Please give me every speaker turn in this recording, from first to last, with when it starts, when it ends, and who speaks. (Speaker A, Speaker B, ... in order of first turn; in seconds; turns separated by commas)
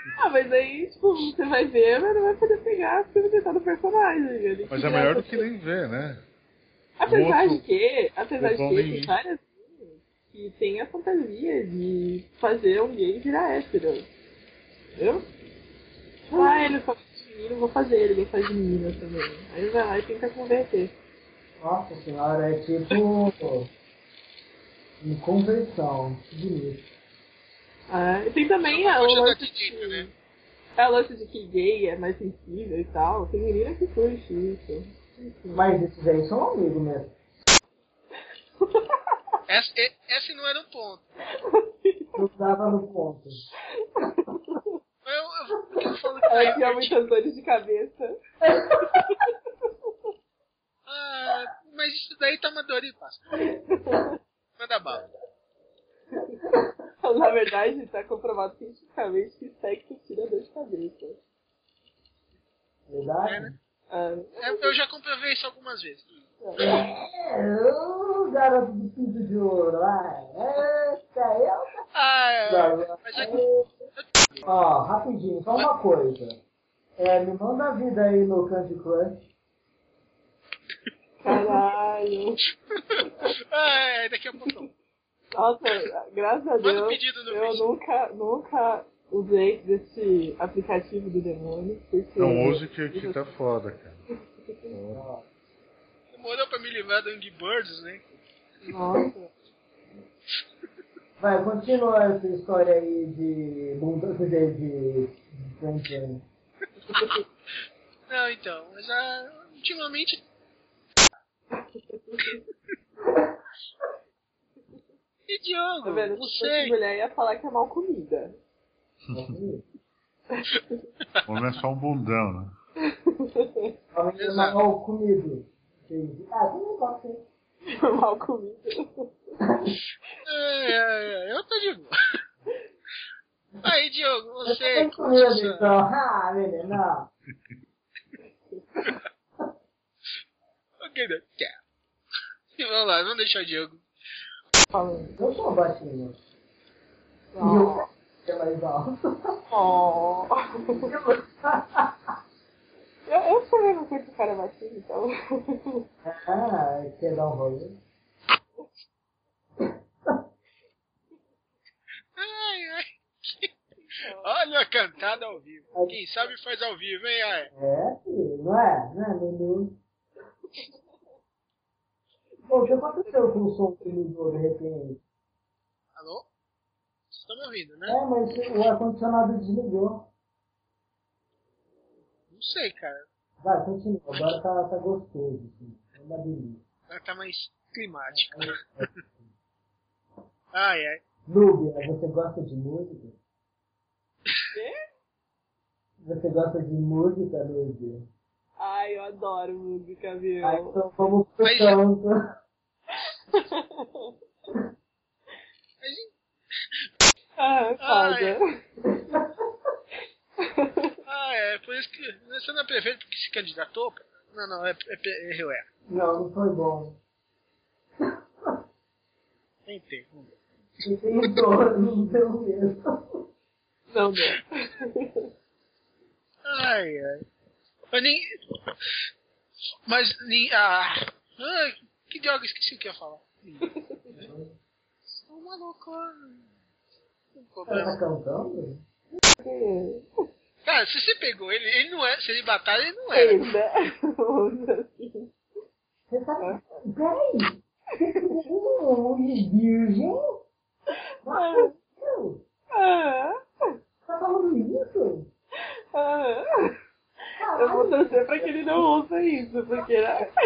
Speaker A: 0.2-5.4, Speaker B: 4.7-6.2, Speaker A: 7.0-14.1, Speaker B: 7.1-7.6, Speaker B: 8.4-9.1, Speaker A: 15.0-15.3, Speaker A: 16.3-20.9, Speaker C: 16.3-16.8, Speaker C: 21.6-23.7, Speaker C: 25.0-26.9, Speaker A: 27.9-30.1, Speaker D: 28.7-30.1, Speaker A: 30.8-35.6, Speaker C: 35.5-37.1, Speaker A: 38.6-39.0, Speaker D: 39.5-41.0, Speaker A: 41.3-42.3, Speaker C: 42.2-43.4, Speaker A: 43.8-44.7, Speaker D: 45.0-47.0, Speaker A: 46.3-48.2, Speaker C: 48.4-49.2, Speaker A: 48.8-49.3, Speaker D: 50.9-53.2, Speaker A: 53.7-54.1, Speaker D: 54.6-55.0, Speaker A: 57.0-61.2, Speaker C: 62.9-63.6, Speaker A: 63.9-64.7, Speaker D: 64.4-66.1, Speaker A: 66.4-66.8, Speaker C: 66.6-71.8, Speaker D: 71.9-73.4, Speaker C: 72.5-73.7, Speaker D: 73.9-74.5, Speaker C: 74.5-76.4, Speaker C: 77.0-79.2, Speaker A: 81.2-82.4, Speaker D: 82.8-84.7, Speaker A: 85.3-93.2, Speaker D: 86.6-87.6, Speaker B: 92.2-94.0, Speaker A: 94.5-94.8, Speaker B: 94.7-95.0, Speaker C: 94.9-95.2, Speaker D: 96.1-98.1, Speaker A: 98.7-99.3, Speaker C: 101.2-106.2, Speaker A: 106.9-107.2, Speaker D: 108.1-110.2, Speaker A: 111.5-112.4, Speaker D: 115.3-116.7, Speaker A: 115.8-118.4, Speaker C: 119.1-119.6, Speaker B: 121.2-122.5, Speaker A: 122.8-123.7, Speaker C: 123.9-127.2, Speaker D: 124.2-124.5, Speaker A: 127.7-129.1, Speaker C: 129.4-129.8, Speaker D: 130.3-131.9, Speaker D: 133.6-135.7, Speaker C: 134.4-137.1, Speaker D: 140.8-141.6, Speaker D: 142.6-143.8, Speaker A: 144.7-145.2, Speaker C: 145.2-146.2, Speaker A: 147.3-147.9, Speaker C: 147.4-149.3, Speaker A: 149.5-150.9, Speaker C: 150.9-152.1, Speaker A: 153.1-155.8, Speaker C: 156.0-157.8, Speaker C: 159.6-160.2, Speaker D: 162.2-163.5, Speaker A: 163.8-164.3, Speaker D: 164.2-167.5, Speaker C: 167.5-169.8, Speaker A: 172.5-174.0, Speaker C: 172.5-175.0, Speaker D: 176.0-176.3, Speaker D: 177.1-178.0, Speaker C: 177.9-180.1, Speaker D: 182.3-183.1, Speaker C: 183.4-186.6, Speaker D: 186.9-188.9, Speaker C: 188.1-189.1, Speaker D: 190.5-191.0, Speaker C: 191.3-193.2, Speaker C: 196.0-198.1, Speaker A: 198.6-200.8, Speaker C: 200.4-202.1, Speaker D: 201.4-201.8, Speaker A: 203.3-204.1, Speaker D: 205.8-206.1, Speaker A: 207.4-208.4, Speaker D: 207.8-208.4, Speaker A: 210.4-210.9, Speaker D: 211.1-215.7, Speaker C: 215.9-217.0, Speaker D: 219.7-220.3, Speaker C: 220.8-222.8, Speaker A: 223.9-225.2, Speaker D: 226.4-227.2, Speaker D: 227.9-228.2, Speaker D: 229.9-234.3, Speaker A: 233.6-234.1, Speaker C: 234.2-234.5, Speaker D: 235.2-236.4, Speaker D: 237.4-238.0, Speaker C: 237.7-238.8, Speaker A: 239.4-240.1, Speaker D: 240.7-243.4, Speaker A: 243.1-245.3, Speaker C: 246.1-250.2, Speaker A: 246.4-246.8, Speaker C: 251.3-252.4, Speaker A: 251.3-251.7, Speaker A: 252.8-253.4, Speaker C: 254.1-255.3, Speaker A: 255.9-256.8, Speaker C: 257.4-258.6, Speaker A: 257.6-260.3